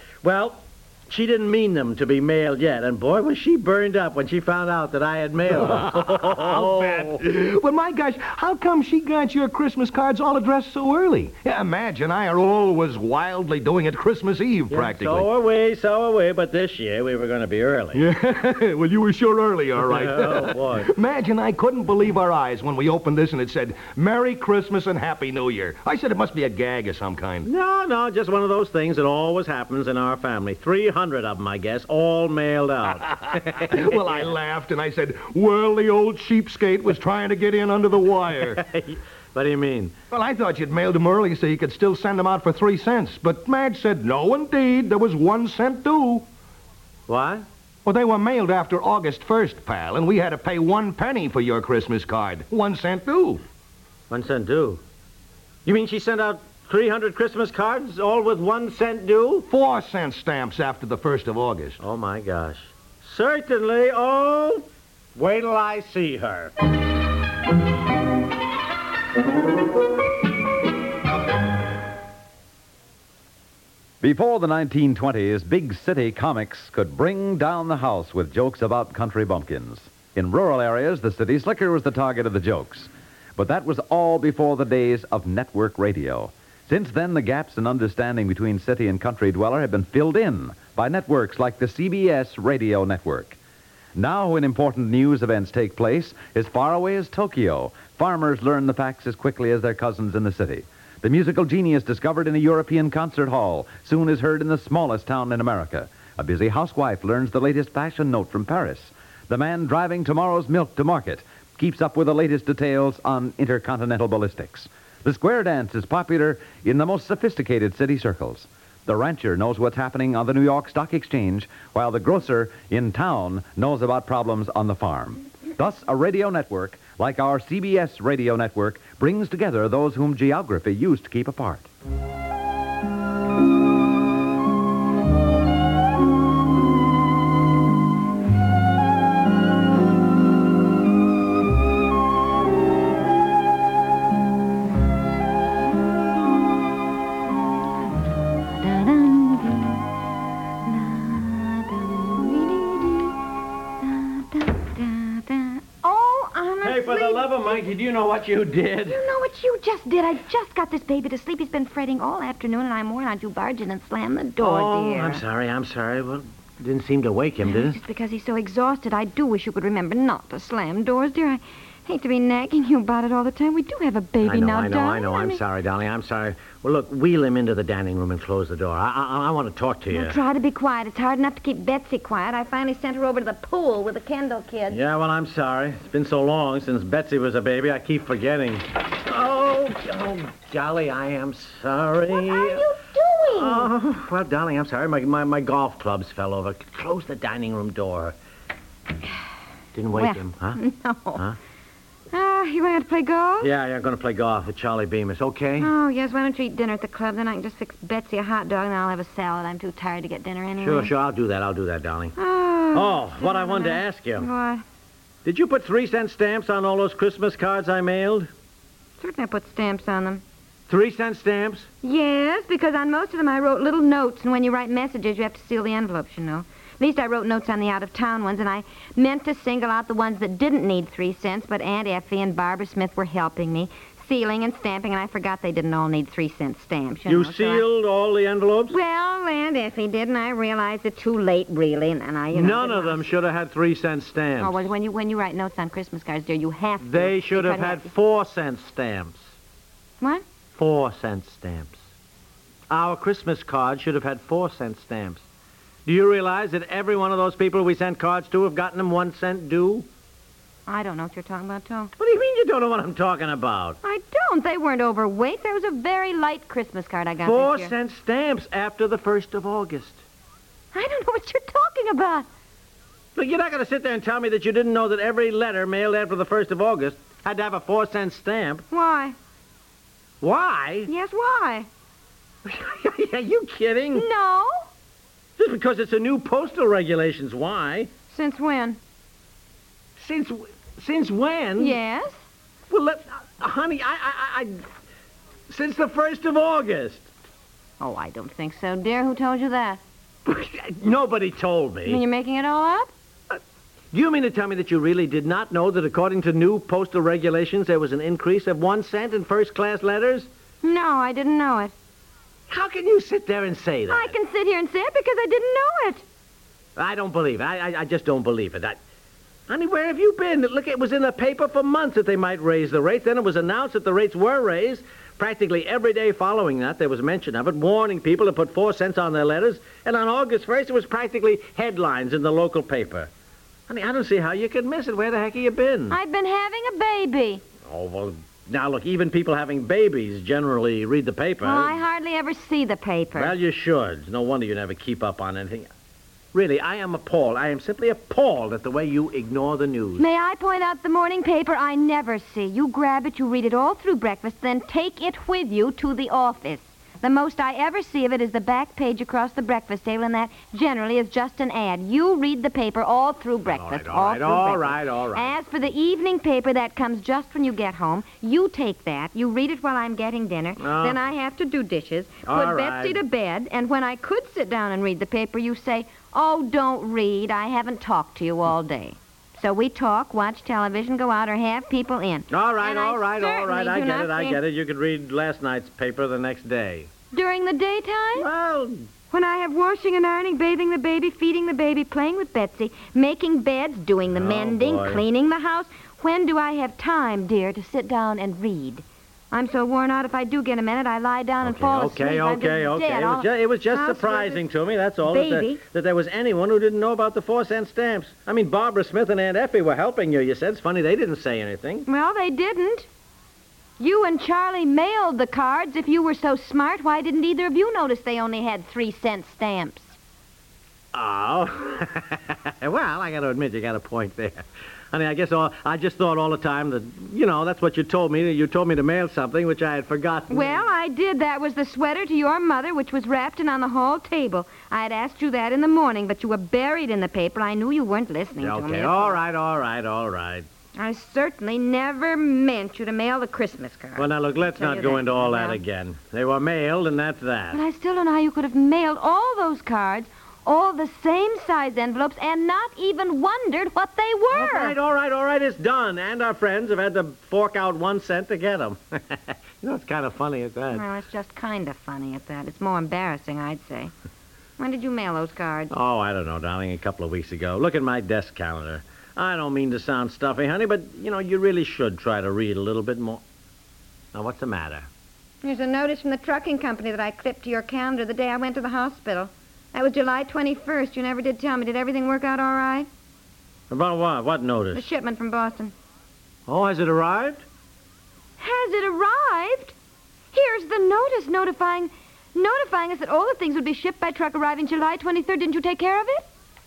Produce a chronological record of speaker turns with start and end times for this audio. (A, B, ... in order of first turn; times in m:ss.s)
0:00.2-0:07.2 A
0:05.5-0:15.3 B
0:14.7-0:18.0 A
0:17.9-0:27.5 B
0:19.8-0:20.9 A
0:27.4-0:34.3 A
0:33.6-0:38.6 B
0:38.2-0:40.0 A
0:40.1-0:46.3 B
0:47.1-0:47.5 A
0:47.8-0:53.4 B
0:54.1-0:54.8 A
0:55.6-0:59.5 A
0:59.5-1:01.8 B
1:01.8-1:06.5 A
1:14.0-1:33.4 C
1:34.0-2:11.7 C
2:28.4-2:29.8 D
2:30.6-2:33.2 D
2:33.8-2:37.7 D
2:36.6-2:39.0 A
2:38.8-2:45.2 D
2:44.4-2:47.8 A
2:47.4-2:55.4 D
2:54.2-3:00.2 A
2:59.9-3:04.8 D
3:04.7-3:12.6 A
3:12.1-3:13.7 D
3:13.3-3:18.2 A
3:19.7-3:20.6 A
3:19.9-3:21.2 D
3:22.1-3:23.5 D
3:23.4-3:25.7 A
3:25.6-3:30.9 D
3:30.6-3:32.1 A
3:32.2-3:34.6 D
3:32.7-3:34.3 A
3:35.2-3:38.3 A
3:39.0-3:40.2 D
3:40.7-3:41.7 A
3:41.8-3:57.6 D
3:57.0-3:58.8 A
3:58.7-4:03.1 D
4:02.3-4:04.7 A
4:04.4-4:07.9 D
4:06.8-4:09.3 A
4:10.0-4:10.2 D
4:10.5-4:11.8 A
4:12.7-4:15.2 A
4:15.8-4:19.9 A
4:20.7-4:21.9 D
4:22.0-4:23.8 A
4:23.8-4:27.7 D
4:27.2-4:30.0 A
4:30.7-4:32.2 D
4:33.2-4:38.6 A
4:38.7-4:39.2 D
4:40.2-4:40.9 A
4:40.9-4:41.7 D
4:42.4-4:44.0 A
4:43.9-4:44.7 D
4:45.4-4:47.9 A
4:48.1-4:48.8 D
4:50.0-4:51.8 A
4:51.6-4:52.2 D
4:52.7-4:54.6 A
4:55.5-4:57.0 A
4:57.8-4:59.8 D
5:00.2-5:02.0 A
5:01.8-5:02.9 D
5:03.9-5:10.3 A
5:10.6-5:11.7 D
5:12.5-5:14.1 A
5:13.9-5:16.0 D
5:16.8-5:18.8 A
5:19.5-5:33.1 A
5:33.7-5:36.0 A
5:35.9-5:37.4 D
5:37.7-5:41.8 A
5:41.4-5:43.3 D
5:43.1-5:45.7 A
5:46.3-5:50.0 A
5:50.0-6:24.4 D
6:03.4-6:05.4 A
6:10.6-6:11.0 A
6:12.2-6:13.0 A
6:22.3-6:26.9 A
6:27.1-6:28.3 D
6:28.2-6:28.8 A
6:29.1-6:44.4 D
6:34.1-6:35.0 A
6:41.4-6:51.9 A
6:45.0-6:45.6 D
6:51.9-6:52.9 D
6:53.8-7:00.0 D
7:00.9-7:10.7 A
7:10.3-7:19.2 D
7:18.4-7:20.4 A
7:20.8-7:25.6 D
7:24.0-7:27.6 A
7:27.5-7:34.8 D
7:34.3-7:40.8 A
7:40.7-7:43.9 D
7:44.6-7:45.7 D
7:45.7-7:53.2 A
7:54.1-7:54.9 A
7:55.4-8:02.9 D
8:03.7-8:04.9 A
8:04.7-8:05.7 D
8:06.5-8:07.4 A
8:08.4-8:09.7 D
8:10.3-8:16.3 D